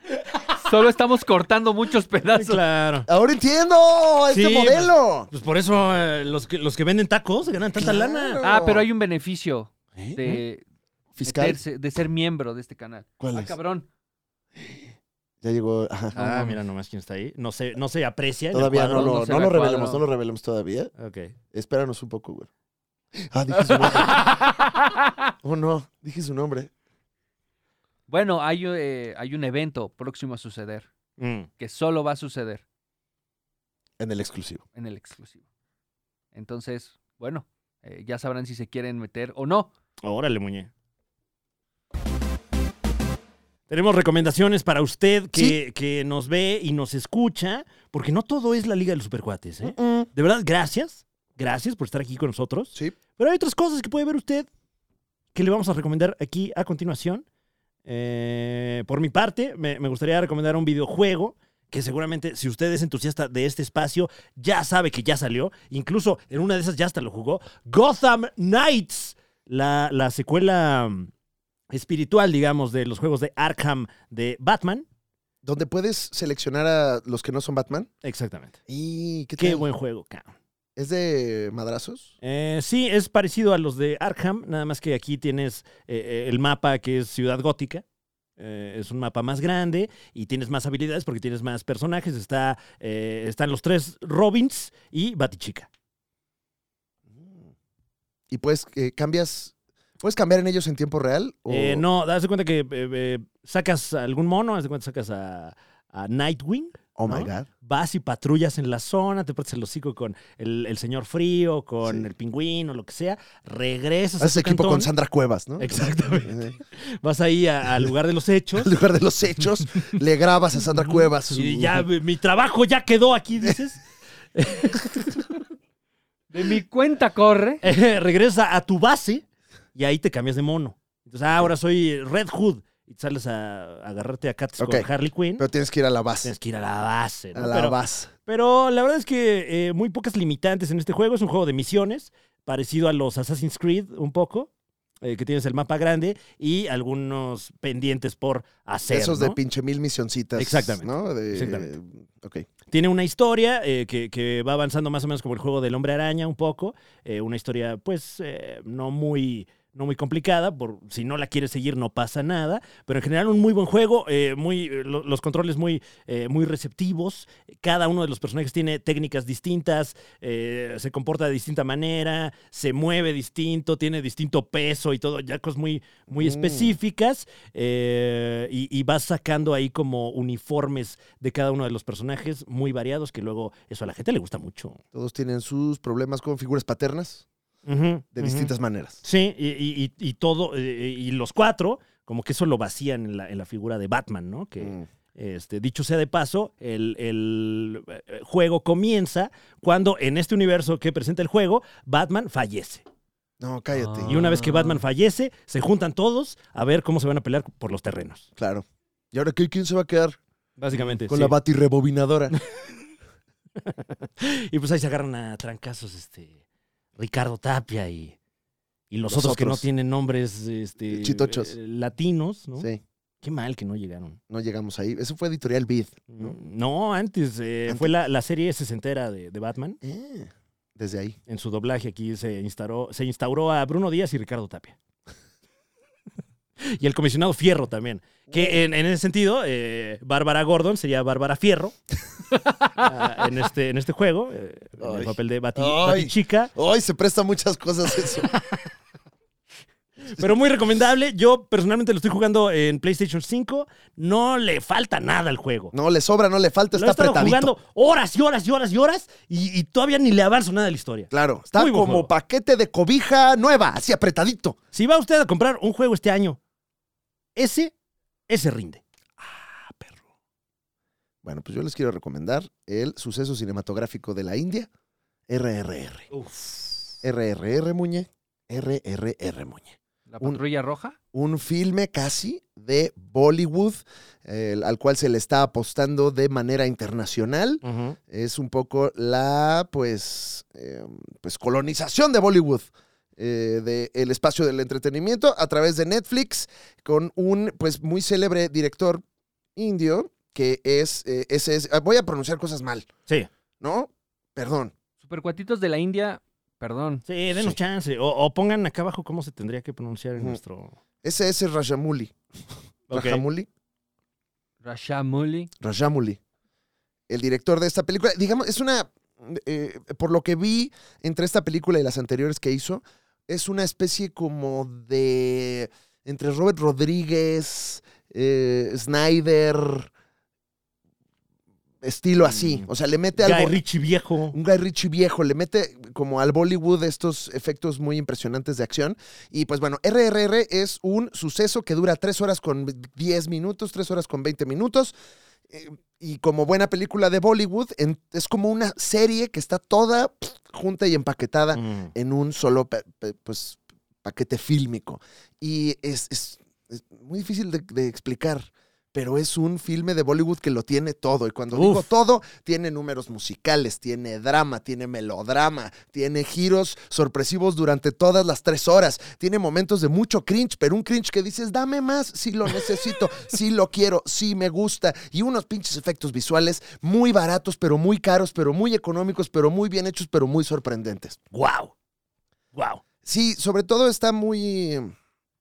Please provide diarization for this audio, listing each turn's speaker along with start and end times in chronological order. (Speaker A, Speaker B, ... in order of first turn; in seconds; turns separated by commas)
Speaker A: 0.6-2.6, Speaker B: 2.3-3.1, Speaker C: 3.0-5.3, Speaker B: 4.3-8.4, Speaker C: 7.8-8.8, Speaker A: 8.4-10.6, Speaker C: 9.9-10.4, Speaker C: 11.1-11.6, Speaker A: 11.2-13.9, Speaker C: 13.2-13.5, Speaker C: 15.4-16.1, Speaker A: 16.1-16.6, Speaker B: 16.1-19.2, Speaker C: 18.5-20.9, Speaker A: 18.9-20.0, Speaker B: 21.0-21.3, Speaker C: 21.5-22.5, Speaker C: 23.2-24.3, Speaker A: 23.8-25.1, Speaker C: 25.4-26.7, Speaker A: 28.1-30.9, Speaker B: 31.2-31.5, Speaker A: 31.6-32.6, Speaker C: 34.0-34.6, Speaker A: 34.7-35.4, Speaker A: 36.3-39.7, Speaker B: 40.0-40.7, Speaker B: 43.7-54.5, Speaker C: 49.6-50.1, Speaker B: 55.3-57.2, Speaker B: 57.9-71.1, Speaker B: 71.7-74.8, Speaker C: 75.4-77.9, Speaker B: 78.0-78.6, Speaker C: 78.7-79.7, Speaker B: 79.4-80.3, Speaker C: 80.8-82.1, Speaker B: 82.2-87.8, Speaker B: 88.4-95.7, Speaker C: 97.1-97.5, Speaker C: 98.3-101.8, Speaker B: 101.5-114.9, Speaker C: 107.0-107.5, Speaker C: 114.2-116.6, Speaker B: 115.6-118.7, Speaker C: 118.5-121.8, Speaker B: 121.3-123.8, Speaker B: 124.3-125.2, Speaker A: 126.3-127.6, Speaker B: 127.6-129.2, Speaker B: 129.7-135.4, Speaker C: 134.6-136.3, Speaker B: 136.2-144.5, Speaker C: 137.3-138.1, Speaker B: 145.0-149.4, Speaker C: 148.9-152.5, Speaker B: 150.4-151.7, Speaker B: 152.7-184.8, Speaker C: 176.1-176.8, Speaker C: 184.9-187.2, Speaker B: 187.7-188.5, Speaker C: 188.1-189.0, Speaker B: 189.0-202.8, Speaker C: 194.6-194.8, Speaker C: 203.4-204.4, Speaker A: 203.8-204.4, Speaker B: 204.1-208.3, Speaker C: 208.4-210.2, Speaker B: 210.6-211.3, Speaker C: 210.8-212.3, Speaker B: 213.6-216.4, Speaker B: 216.9-218.2, Speaker B: 218.9-222.7, Speaker C: 219.1-219.7, Speaker C: 220.9-221.5, Speaker B: 223.2-224.2, Speaker C: 224.3-226.3, Speaker B: 226.1-229.8, Speaker C: 229.8-231.2, Speaker B: 231.3-234.8, Speaker B: 236.6-241.7, Speaker C: 238.3-238.6, Speaker B: 242.8-246.5, Speaker C: 244.8-248.3, Speaker B: 250.0-255.7, Speaker C: 255.7-257.5, Speaker B: 256.7-262.1, Speaker C: 261.1-264.6, Speaker B: 264.7-266.4, Speaker B: 267.4-267.7, Speaker B: 268.3-268.8, Speaker C: 269.2-270.0, Speaker C: 271.2-274.7, Speaker C: 275.3-276.1, Speaker B: 276.1-276.9, Speaker C: 277.0-280.4, Speaker A: 280.1-281.0, Speaker C: 281.1-299.0, Speaker B: 287.6-288.0, Speaker C: 299.6-302.9, Speaker C: 303.6-304.7, Speaker A: 305.0-307.0, Speaker B: 307.1-310.8, Speaker C: 311.0-312.2, Speaker B: 312.9-313.2, Speaker C: 312.9-313.5, Speaker A: 314.6-315.5, Speaker C: 315.6-316.2, Speaker C: 317.1-329.9, Speaker C: 331.8-333.6, Speaker B: 332.3-334.4, Speaker C: 334.3-344.9, Speaker C: 345.5-381.2, Speaker B: 351.5-351.9, Speaker B: 361.5-361.9, Speaker B: 381.3-381.7, Speaker B: 382.5-382.8, Speaker C: 383.0-384.9